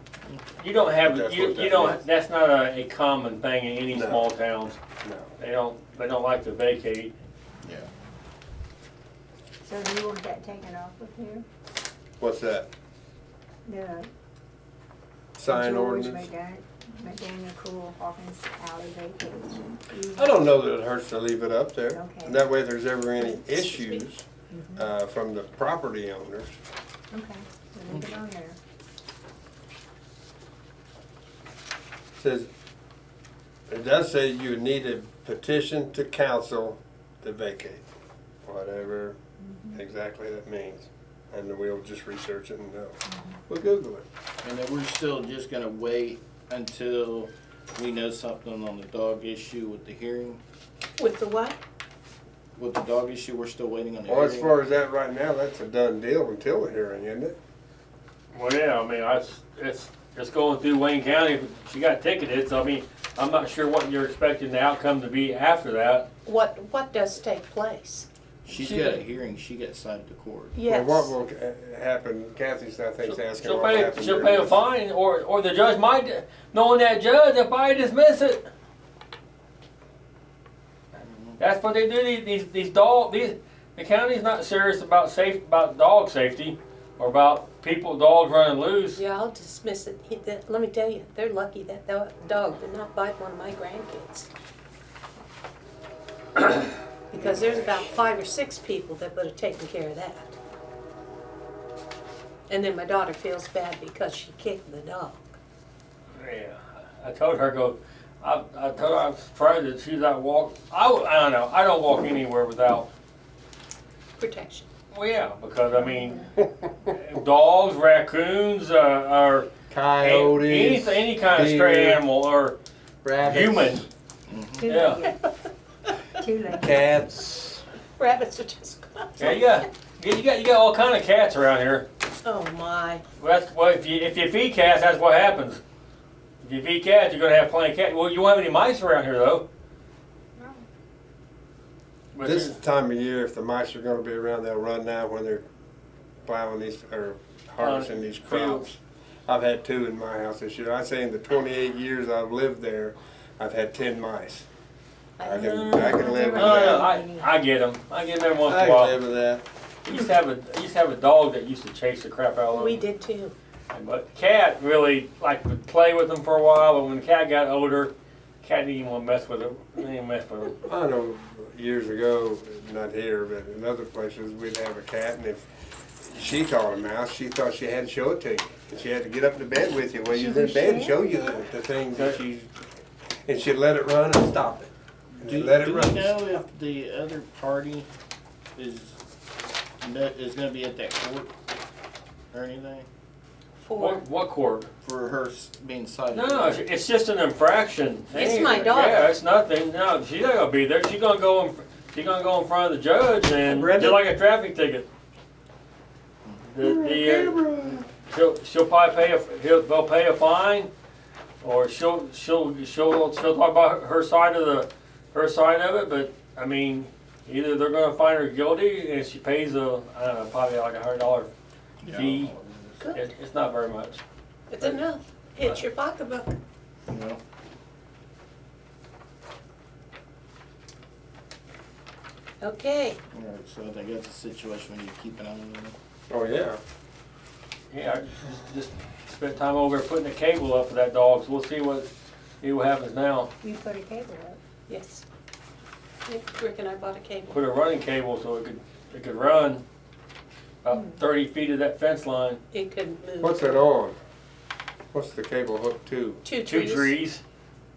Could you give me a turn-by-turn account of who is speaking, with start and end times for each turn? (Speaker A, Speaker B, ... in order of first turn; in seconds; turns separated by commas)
Speaker A: 0.6-4.8, Speaker B: 1.0-2.0, Speaker B: 3.9-4.2, Speaker B: 5.0-5.3, Speaker A: 5.4-7.1, Speaker C: 7.6-7.9, Speaker D: 9.6-11.4, Speaker B: 12.2-12.7, Speaker D: 13.7-14.1, Speaker B: 15.3-16.3, Speaker D: 15.5-20.4, Speaker B: 20.1-26.5, Speaker D: 21.9-22.4, Speaker E: 23.3-24.1, Speaker D: 24.5-24.9, Speaker D: 27.1-28.6, Speaker C: 27.9-28.2, Speaker B: 32.2-32.5, Speaker B: 33.7-37.9, Speaker B: 38.4-39.2, Speaker D: 39.4-39.8, Speaker B: 39.7-43.0, Speaker D: 43.1-43.3, Speaker B: 43.5-44.0, Speaker C: 44.4-50.4, Speaker E: 51.0-51.6, Speaker C: 52.5-54.6, Speaker B: 54.1-57.4, Speaker A: 58.3-66.1, Speaker E: 66.2-68.1, Speaker C: 68.4-70.6, Speaker A: 68.5-69.0, Speaker E: 70.5-71.1, Speaker B: 70.7-74.6, Speaker A: 73.0-78.5, Speaker C: 81.0-81.4, Speaker A: 81.4-89.0, Speaker E: 88.9-94.3, Speaker E: 97.1-100.4, Speaker B: 97.1-97.8, Speaker E: 102.5-105.3, Speaker A: 106.2-112.9, Speaker E: 114.2-114.7, Speaker A: 114.9-116.3, Speaker D: 115.7-116.3, Speaker A: 116.8-119.5, Speaker B: 119.7-122.0, Speaker A: 120.0-122.6, Speaker B: 123.0-123.8, Speaker A: 123.2-123.8, Speaker C: 124.3-124.7, Speaker D: 124.6-125.2, Speaker A: 124.6-125.0, Speaker E: 125.0-125.3, Speaker D: 126.1-126.7, Speaker B: 126.5-127.6, Speaker E: 128.0-129.7, Speaker A: 129.2-131.8, Speaker E: 132.2-133.0, Speaker A: 133.2-135.6, Speaker A: 136.4-139.4, Speaker D: 140.4-140.6, Speaker A: 142.1-142.6, Speaker B: 142.2-145.4, Speaker B: 146.2-154.5, Speaker A: 147.6-148.7, Speaker E: 155.2-157.3, Speaker B: 155.2-156.8, Speaker A: 155.3-159.0, Speaker D: 156.7-157.0, Speaker B: 158.4-159.4, Speaker A: 159.8-162.8, Speaker E: 162.5-163.3, Speaker A: 163.7-170.6, Speaker B: 170.7-175.4, Speaker B: 176.0-182.6, Speaker D: 180.1-181.5, Speaker B: 183.2-184.7, Speaker C: 185.1-187.9, Speaker B: 185.2-186.2, Speaker C: 188.5-189.0, Speaker C: 189.8-191.3, Speaker C: 192.3-192.9, Speaker E: 193.6-194.0, Speaker A: 193.8-194.7, Speaker C: 194.8-196.6, Speaker A: 196.1-204.9, Speaker E: 198.1-199.1, Speaker B: 203.4-204.0, Speaker A: 206.5-210.7, Speaker B: 206.6-207.8, Speaker A: 211.4-221.3, Speaker C: 221.8-222.8, Speaker A: 221.9-222.3, Speaker A: 222.9-224.0, Speaker E: 224.5-226.3, Speaker C: 226.9-227.2, Speaker E: 232.4-233.0, Speaker C: 233.1-235.7, Speaker B: 236.1-236.6, Speaker A: 237.7-241.9, Speaker A: 242.4-243.3, Speaker D: 243.4-244.4, Speaker E: 244.7-245.0, Speaker E: 246.1-247.4, Speaker A: 247.3-249.6, Speaker A: 250.6-252.4, Speaker E: 252.5-253.6, Speaker B: 253.2-254.0, Speaker B: 254.9-256.2, Speaker E: 256.2-256.9, Speaker A: 256.4-257.2